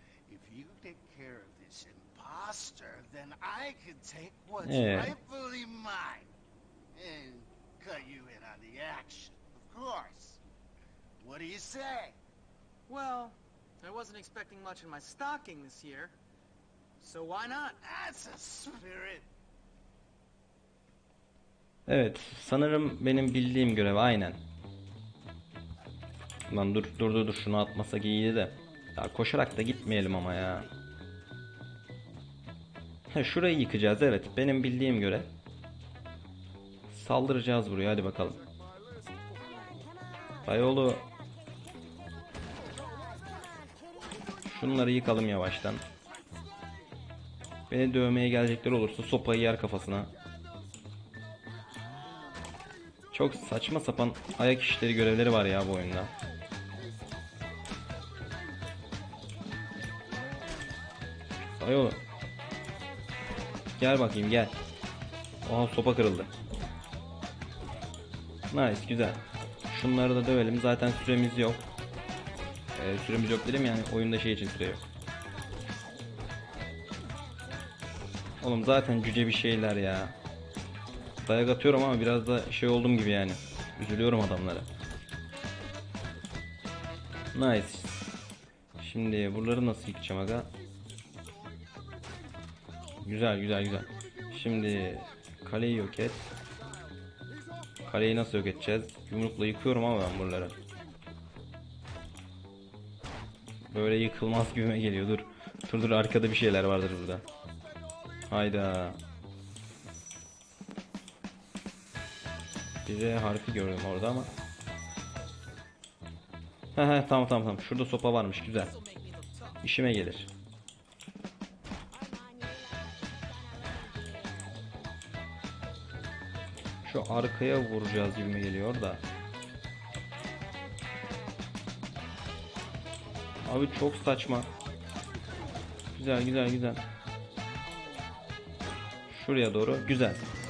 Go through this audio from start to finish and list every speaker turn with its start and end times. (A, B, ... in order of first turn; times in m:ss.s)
0:00.3-0:06.3 A
0:04.6-0:05.2 B
0:06.9-0:10.4 A
0:11.2-0:12.2 A
0:12.9-0:16.2 C
0:17.0-0:17.8 C
0:17.8-0:19.3 A
0:21.9-0:24.4 B
0:26.5-0:30.7 B
0:33.1-0:35.3 B
0:36.9-0:38.4 B
0:40.4-0:41.1 B
0:42.8-0:43.3 C
0:44.4-0:45.8 B
0:47.7-0:50.1 B
0:53.1-0:56.1 B
1:01.5-1:02.0 B
1:03.8-1:04.6 B
1:05.4-1:06.3 B
1:08.5-1:11.7 B
1:12.8-1:14.8 B
1:18.4-1:20.2 B
1:21.2-1:24.7 B
1:27.3-1:28.1 B
1:28.8-1:30.5 B
1:33.0-1:36.3 B
1:37.8-1:40.6 B
1:43.7-1:47.2 B
1:48.3-1:49.0 B
1:52.9-1:54.3 B
1:56.8-1:58.7 B
1:58.6-1:59.6 C
1:59.6-2:00.3 B
2:02.0-2:02.8 C
2:03.3-2:04.5 C
2:06.8-2:09.0 B
2:13.4-2:14.5 B
2:15.9-2:16.8 B
2:19.1-2:20.2 B